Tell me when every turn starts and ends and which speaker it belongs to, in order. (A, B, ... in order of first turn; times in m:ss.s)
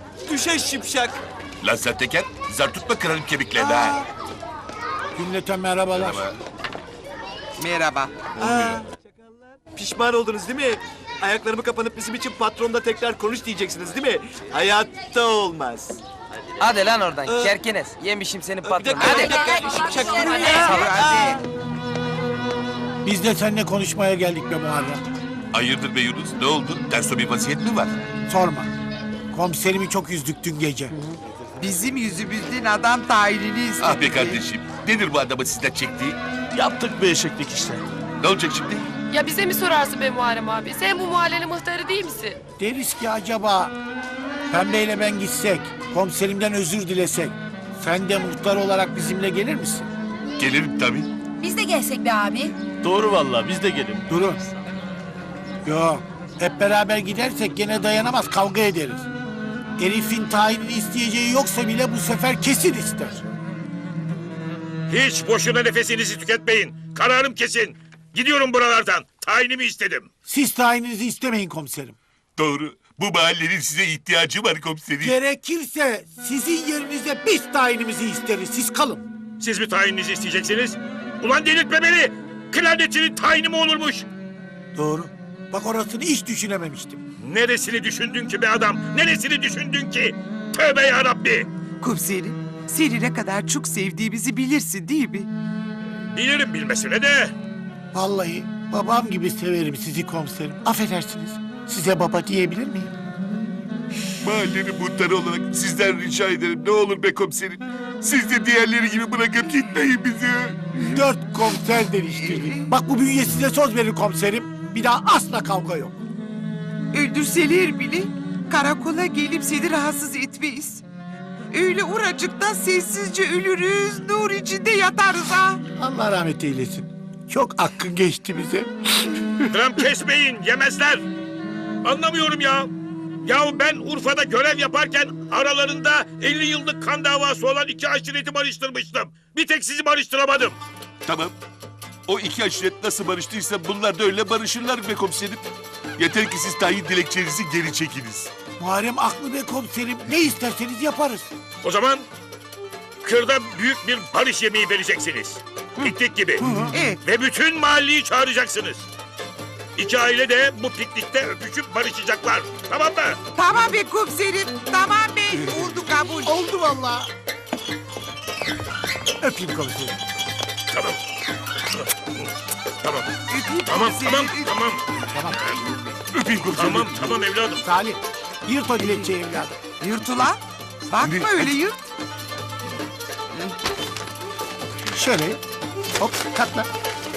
0:00.2-0:01.2 A
0:01.6-0:04.0 B
0:03.6-0:04.0 A
0:05.2-0:06.2 C
0:05.9-0:06.4 B
0:07.6-0:08.1 D
0:08.4-0:16.0 A
0:08.4-0:08.8 B
0:16.6-0:21.3 D
0:17.2-0:17.6 A
0:18.6-0:21.4 A
0:19.5-0:20.6 E
0:19.9-0:20.9 F
0:23.0-0:25.0 C
0:25.5-0:28.0 B
0:28.3-0:28.7 C
0:29.3-0:30.9 C
0:31.6-0:34.4 F
0:33.8-0:36.2 B
0:36.6-0:37.8 G
0:36.8-0:37.6 B
0:38.2-0:38.9 B
0:39.1-0:42.4 H
0:42.6-0:43.7 C
0:44.5-0:49.9 C
0:50.4-0:51.1 B
0:51.4-0:52.5 E
0:52.8-0:54.0 G
0:53.0-0:54.0 B
0:54.1-0:54.4 C
0:55.6-0:59.1 C
0:59.8-1:03.2 C
1:04.9-1:10.1 I
1:10.2-1:12.0 C
1:12.4-1:15.1 B
1:15.0-1:19.0 C
1:19.4-1:24.0 I
1:24.7-1:27.0 C
1:27.2-1:31.5 I
1:31.8-1:35.3 F
1:36.1-1:37.3 I
1:37.9-1:42.9 C
1:44.2-1:51.0 B
1:50.8-1:56.0 C
1:52.1-1:52.7 F
1:56.9-2:00.8 F
2:01.5-2:05.6 F
2:05.8-2:09.5 C
2:09.5-2:11.0 I
2:11.8-2:12.7 I
2:13.2-2:20.6 I
2:21.0-2:21.3 B
2:22.1-2:28.3 B
2:28.6-2:31.3 C
2:31.6-2:32.0 I
2:33.0-2:36.5 I
2:36.4-2:36.8 C
2:36.7-2:37.0 F
2:37.0-2:38.8 I
2:39.8-2:43.2 I
2:43.3-2:46.4 F
2:45.3-2:47.1 C
2:49.2-2:50.0 C
2:50.7-2:51.0 I
2:51.7-2:52.3 I
2:52.8-2:53.1 I
2:53.3-2:54.5 F
2:53.7-2:54.8 I
2:55.0-2:55.8 C
2:56.1-2:57.2 B
2:56.6-2:57.6 I
2:57.6-2:59.6 C
2:59.8-3:01.8 F
3:01.0-3:01.5 B
3:04.9-3:05.4 C
3:06.0-3:06.7 C